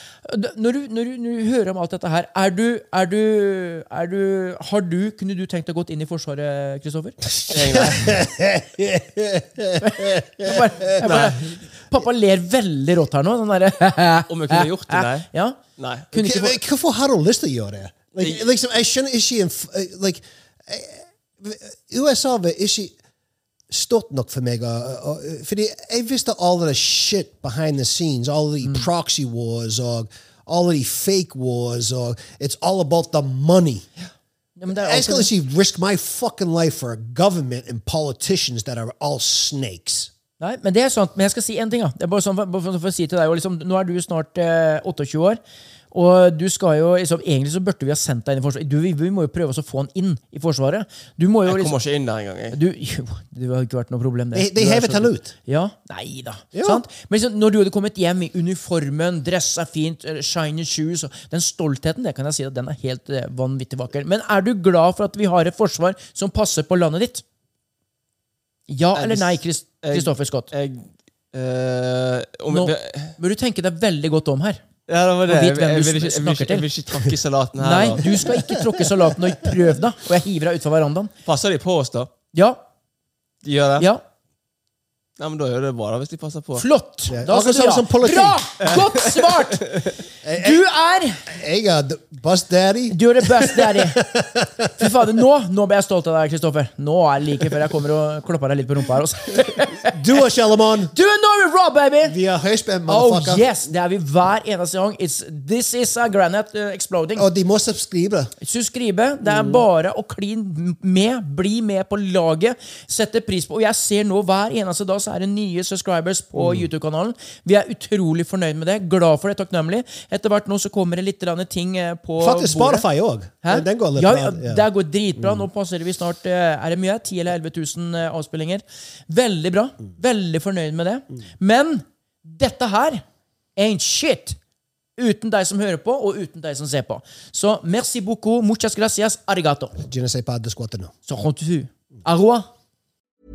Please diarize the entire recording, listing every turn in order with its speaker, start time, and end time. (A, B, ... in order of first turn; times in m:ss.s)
0:00.2-0:08.0 A
0:07.5-0:10.9 B
0:07.5-0:08.2 C
0:09.8-0:15.6 A
0:11.0-0:11.5 C
0:14.3-0:16.1 C
0:16.1-0:16.6 A
0:16.1-0:23.0 B
0:23.7-0:33.9 B
0:34.6-0:35.3 A
0:34.7-0:40.1 B
0:40.4-0:45.4 A
0:45.9-0:51.7 A
0:51.5-0:52.6 C
0:52.5-1:07.2 A
0:54.3-0:55.3 B
0:56.5-0:56.8 B
1:08.7-1:10.5 A
1:08.9-1:13.1 C
1:12.5-1:14.7 A
1:14.9-1:18.6 C
1:15.3-1:16.7 A
1:17.6-1:21.1 A
1:21.2-1:22.1 C
1:22.3-1:22.6 A
1:23.4-1:23.9 C
1:23.8-1:24.0 A
1:25.2-1:26.6 C
1:26.6-1:29.8 A
1:27.1-1:28.4 B
1:28.7-1:29.8 C
1:30.2-1:30.6 B
1:30.3-1:31.3 A
1:31.3-1:35.1 B
1:32.9-1:34.0 A
1:34.8-1:39.9 A
1:39.8-1:40.9 B
1:40.9-1:42.2 A
1:42.0-1:43.5 B
1:42.9-1:47.3 A
1:47.2-1:48.3 B
1:48.4-2:02.9 A
1:49.2-1:49.6 B
1:56.4-1:56.7 B
2:02.2-2:05.4 B
2:03.4-2:13.0 A
2:13.6-2:14.4 A
2:15.0-2:19.8 A
2:19.8-2:20.9 B
2:21.1-2:22.5 A